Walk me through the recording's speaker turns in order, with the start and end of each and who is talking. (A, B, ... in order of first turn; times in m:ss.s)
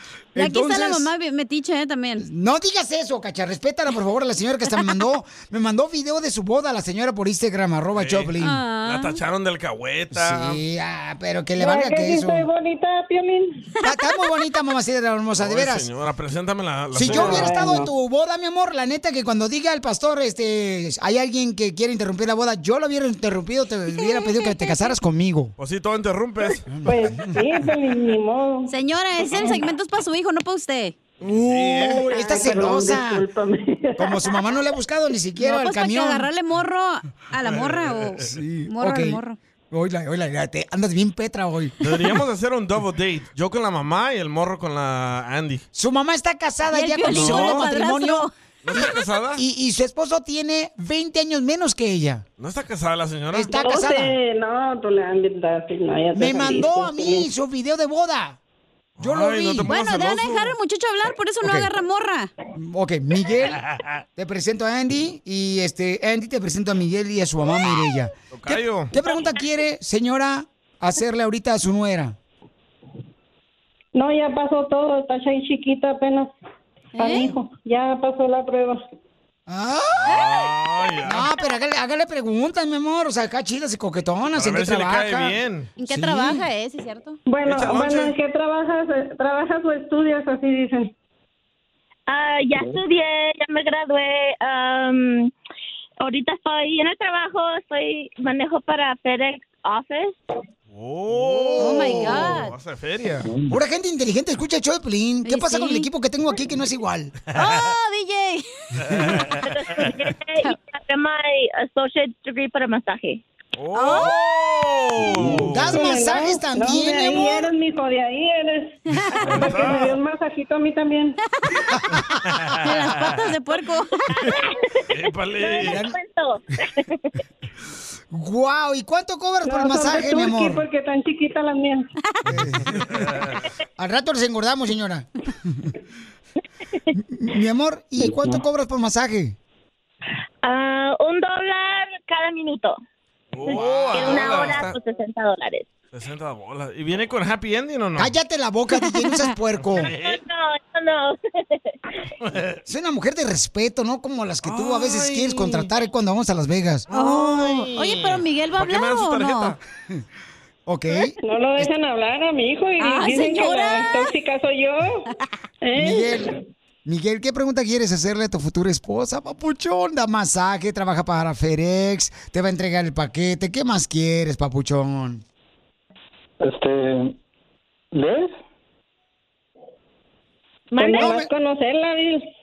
0:00.3-0:01.1 A
0:00.4-0:02.2 B
0:02.2-0:08.6 A
0:07.9-0:08.3 C
0:08.4-0:09.2 B
0:08.8-0:10.6 C
0:10.1-0:12.4 A
0:11.6-0:13.6 D
0:13.8-0:15.9 A
0:15.4-0:17.5 C
0:16.9-0:25.5 A
0:17.1-0:17.9 D
0:24.2-0:24.5 B
0:25.6-0:26.6 C
0:26.7-0:27.0 A
0:26.8-0:28.7 D
0:28.7-0:31.0 B
0:31.2-0:33.2 A
0:31.3-0:32.1 C
0:32.0-0:34.4 D
0:34.0-0:36.3 A
0:35.4-0:39.4 B
0:37.4-0:38.2 C
0:38.2-0:39.2 A
0:39.7-0:41.8 A
0:41.8-0:45.6 C
0:45.7-0:52.2 A
0:46.7-0:48.3 B
0:47.1-0:47.6 C
0:48.6-0:49.4 C
0:52.4-0:53.6 C
0:53.3-0:54.1 A
0:53.5-0:57.3 D
0:56.1-0:58.4 A
0:59.0-1:00.5 C
0:59.0-0:59.7 A
0:59.6-1:02.3 B
1:01.4-1:01.7 A
1:02.6-1:03.6 A
1:03.6-1:04.0 C
1:04.2-1:12.1 A
1:08.3-1:08.9 C
1:13.9-1:16.3 D
1:16.9-1:17.3 B
1:17.0-1:18.8 D
1:19.5-1:20.2 A
1:20.0-1:21.3 C
1:21.0-1:25.4 A
1:24.3-1:25.7 C
1:25.8-1:27.2 B
1:25.9-1:26.4 A
1:27.3-1:30.9 D
1:27.4-1:28.1 C
1:32.1-1:35.3 E
1:36.0-1:40.2 E
1:40.7-1:43.3 C
1:41.3-1:42.4 A
1:41.6-1:42.5 B
1:43.5-1:47.1 A
1:45.2-1:45.9 B
1:47.3-1:48.4 B
1:47.4-1:47.6 C
1:48.8-1:49.4 C
1:49.5-1:53.2 E
1:53.6-1:55.8 C
1:53.7-1:54.1 B
1:55.2-1:57.4 A
1:55.2-2:01.2 D
1:58.9-1:59.2 B
1:59.2-2:00.0 C
2:02.3-2:03.0 C
2:02.6-2:03.9 B
2:04.2-2:04.8 E
2:04.9-2:05.8 C
2:05.4-2:07.1 E
2:05.6-2:05.9 A
2:08.1-2:10.6 A
2:09.4-2:11.9 D
2:12.2-2:13.0 A
2:12.6-2:13.4 C
2:13.8-2:15.7 A
2:16.9-2:19.4 A
2:20.4-2:22.8 E
2:23.3-2:24.8 C
2:23.4-2:25.6 E
2:25.9-2:28.1 C
2:28.0-2:29.9 A
2:28.8-2:29.2 B
2:29.6-2:30.2 C
2:30.0-2:31.8 E
2:32.2-2:32.6 C
2:32.6-2:36.9 A
2:34.4-2:35.7 C
2:36.9-2:39.6 C
2:36.9-2:39.5 B
2:40.6-2:41.7 A
2:41.2-2:45.0 D
2:42.8-2:44.1 B
2:45.6-2:46.3 D
2:45.8-2:46.3 A
2:46.8-2:55.2 A
3:00.7-3:01.1 E
3:00.8-3:02.3 D
3:01.0-3:01.3 A